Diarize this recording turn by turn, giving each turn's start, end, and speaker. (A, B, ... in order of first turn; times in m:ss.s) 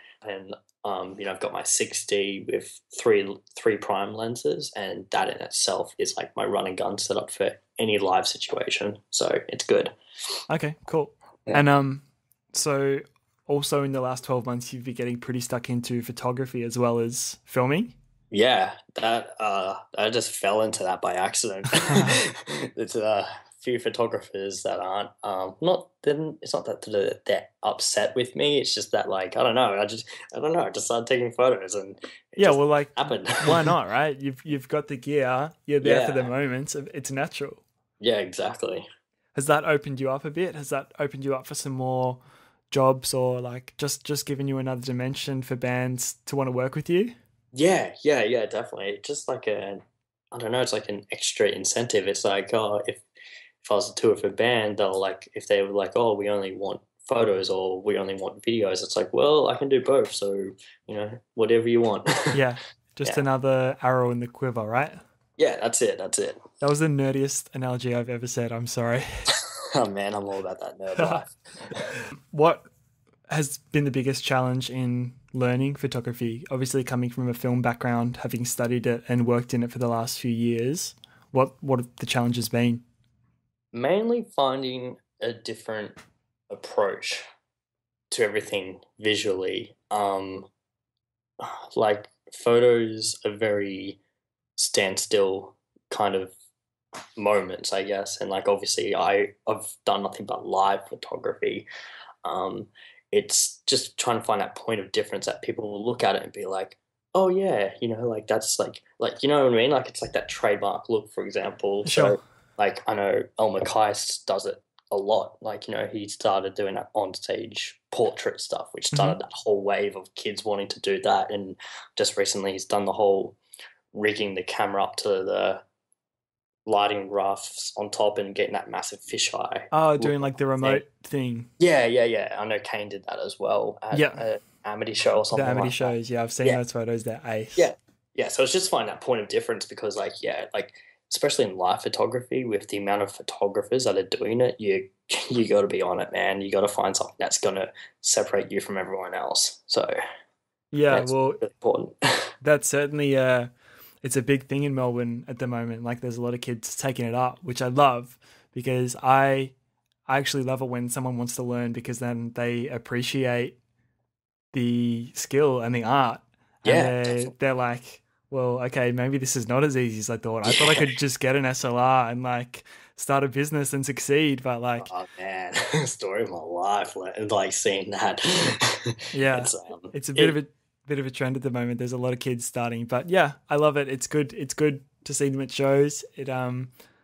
0:00.2-0:09.9 A
0:10.5-0:18.0 B
0:18.3-0:33.7 A
0:21.8-0:22.2 B
0:32.4-0:37.6 B
0:35.8-0:36.3 A
0:38.0-0:38.9 A
0:39.4-0:42.2 B
0:42.7-0:47.2 B
0:47.5-0:53.0 A
0:53.6-1:02.4 A
1:02.3-1:05.0 B
1:05.4-1:06.4 A
1:06.6-1:09.4 B
1:09.4-1:11.8 A
1:11.0-1:12.7 B
1:13.3-1:22.8 B
1:23.7-1:26.0 A
1:26.5-1:27.2 A
1:28.1-1:30.5 A
1:31.4-1:34.0 A
1:34.6-1:36.3 A
1:37.2-1:41.7 A
1:42.2-2:03.4 A
1:51.8-1:52.2 B
1:58.9-1:59.2 B
2:03.9-2:05.6 A
2:06.7-2:10.8 A
2:09.7-2:11.5 B
2:11.6-2:16.6 A
2:13.9-2:14.2 B
2:15.3-2:17.7 B
2:17.6-2:29.9 A
2:30.7-2:31.4 B
2:30.9-2:32.3 A
2:32.4-2:33.5 B
2:34.0-2:39.5 B
2:40.1-2:43.6 B
2:44.5-2:54.9 B
2:46.6-2:47.3 A
2:50.5-2:50.8 A
2:54.8-3:00.4 A
2:59.1-3:06.7 B